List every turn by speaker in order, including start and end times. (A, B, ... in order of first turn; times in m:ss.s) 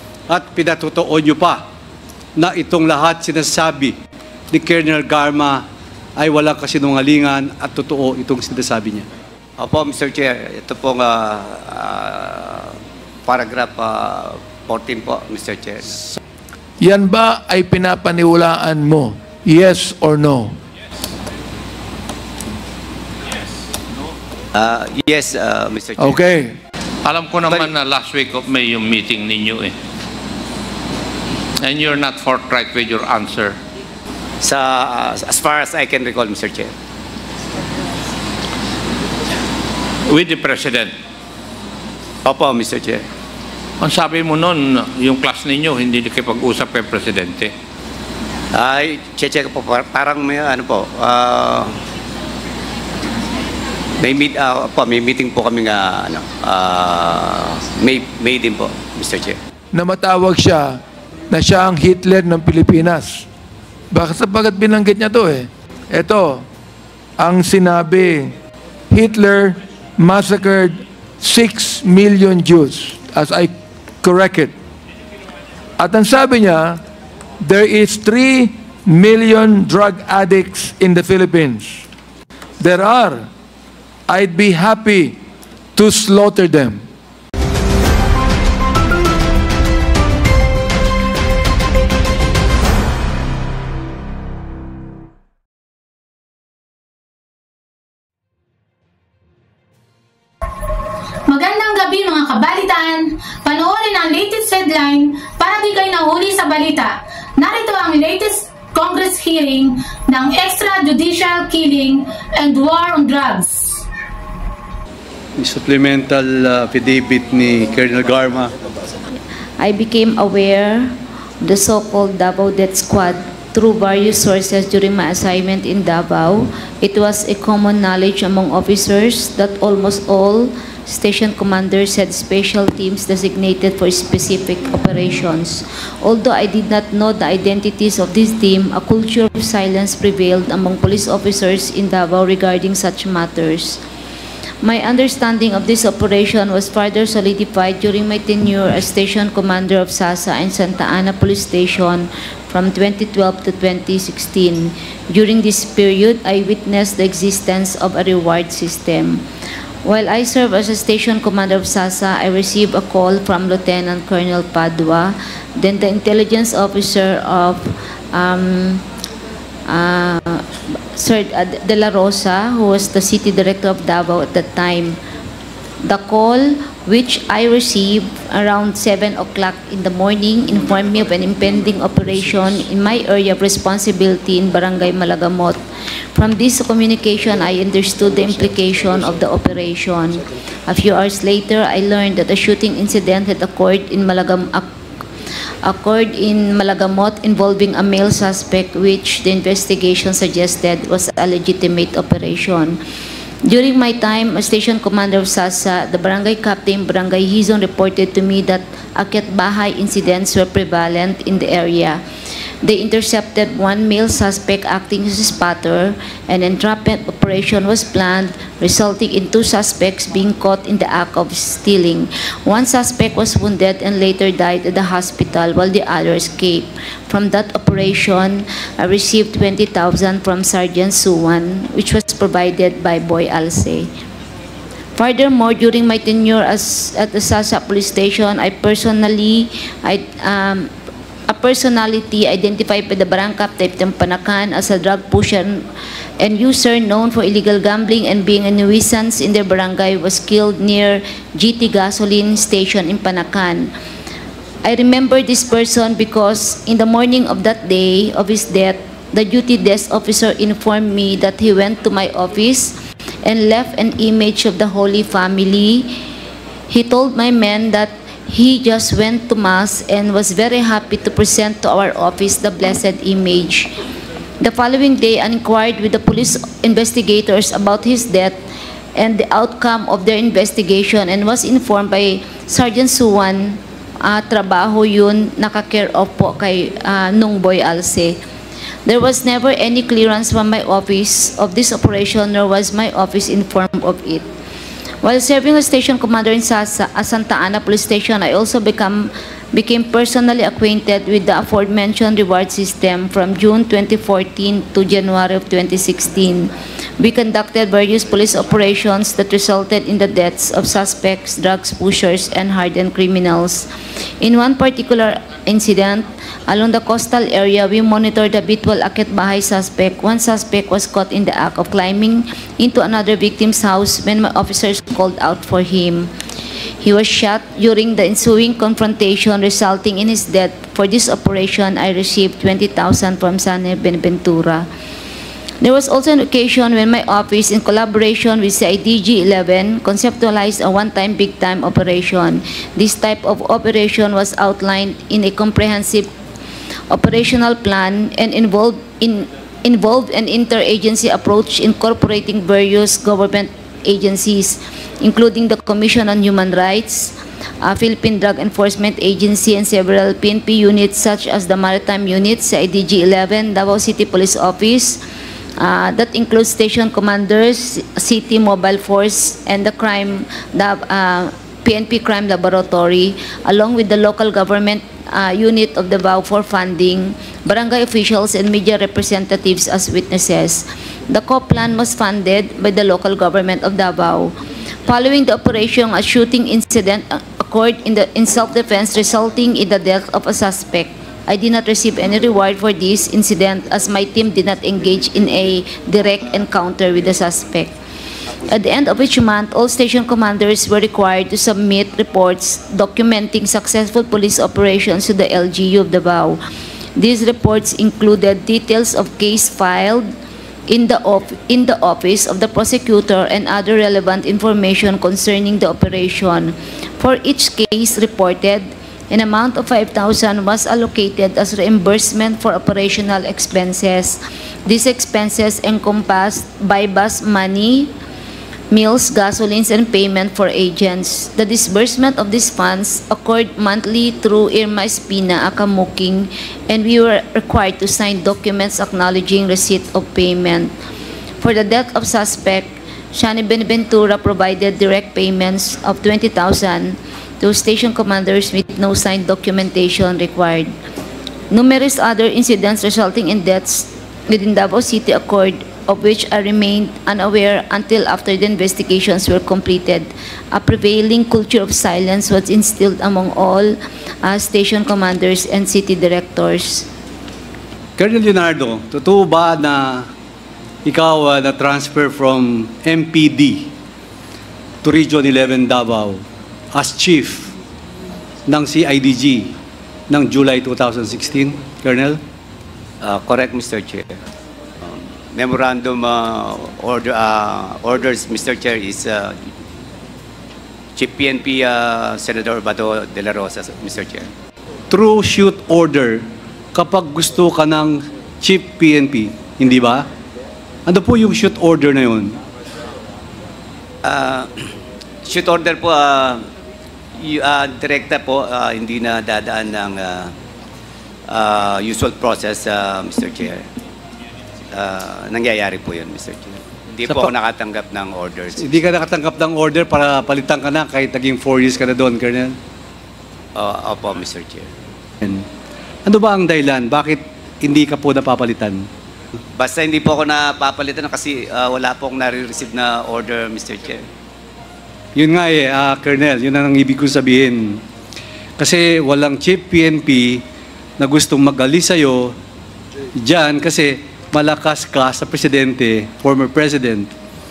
0:00.3-0:01.7 A
0:02.4-0:04.0 A
0:04.5-0:05.6 A
0:06.2-0:09.1 A
0:09.6-0:16.2 B
0:16.8-0:20.6 C
0:24.6-0:26.2 B
0:26.0-0:26.6 C
0:27.0-0:29.7 D
0:31.6-0:33.6 D
0:34.4-0:36.7 B
0:40.1-0:40.9 D
0:42.3-0:43.0 B
0:43.8-0:47.5 D
0:48.5-0:51.7 B
0:54.0-0:59.4 B
0:59.7-1:03.3 C
1:03.9-1:06.5 C
1:07.2-1:08.3 C
1:08.9-1:14.5 C
1:15.8-1:16.8 C
1:17.4-1:21.9 C
1:22.6-1:23.3 C
1:24.1-1:25.2 C
1:25.8-1:26.8 C
1:41.3-1:53.8 E
1:55.4-1:58.5 A
1:59.6-2:23.8 F
2:24.6-2:39.2 F
2:39.8-2:48.8 F
2:49.7-2:55.0 F
2:55.8-3:05.6 F
3:06.2-3:14.7 F
3:15.6-3:22.8 F
3:23.4-3:32.0 F
3:32.6-3:53.9 F
3:55.0-4:00.7 F
4:01.3-4:05.6 F
4:06.2-4:13.7 F
4:14.6-4:25.9 F
4:26.7-4:33.7 F
4:34.4-4:38.4 F
4:39.0-4:48.2 F
4:48.9-4:54.3 F
4:55.0-5:13.7 F
5:14.2-5:26.1 F
5:26.8-5:34.7 F
5:35.6-5:46.1 F
5:46.9-6:05.0 F
6:05.6-6:24.3 F
6:24.9-6:37.7 F
6:38.5-6:46.4 F
6:47.0-6:50.1 F
6:50.7-7:07.9 F
7:08.7-7:20.7 F
7:21.4-7:30.7 F
7:31.5-7:46.9 F
7:48.0-7:50.1 A
7:50.8-7:53.7 A
7:54.8-7:56.2 A
7:56.7-7:57.5 A
7:58.5-7:59.6 A
8:00.1-8:02.2 A
8:03.0-8:04.2 B
8:04.8-8:09.4 B
8:11.0-8:14.3 B
8:14.9-8:20.1 A
8:20.9-8:22.4 A
8:24.0-8:24.5 B
8:25.3-8:26.4 B
8:27.2-8:30.3 B
8:31.3-8:33.6 B
8:34.7-8:38.8 B
8:37.0-8:37.3 A
8:38.6-8:42.6 A
8:43.6-8:44.7 B
8:46.1-8:48.9 A
8:49.6-8:54.0 B
8:55.2-8:57.8 A
8:58.6-9:00.4 A
9:01.0-9:02.4 A
9:03.2-9:07.1 A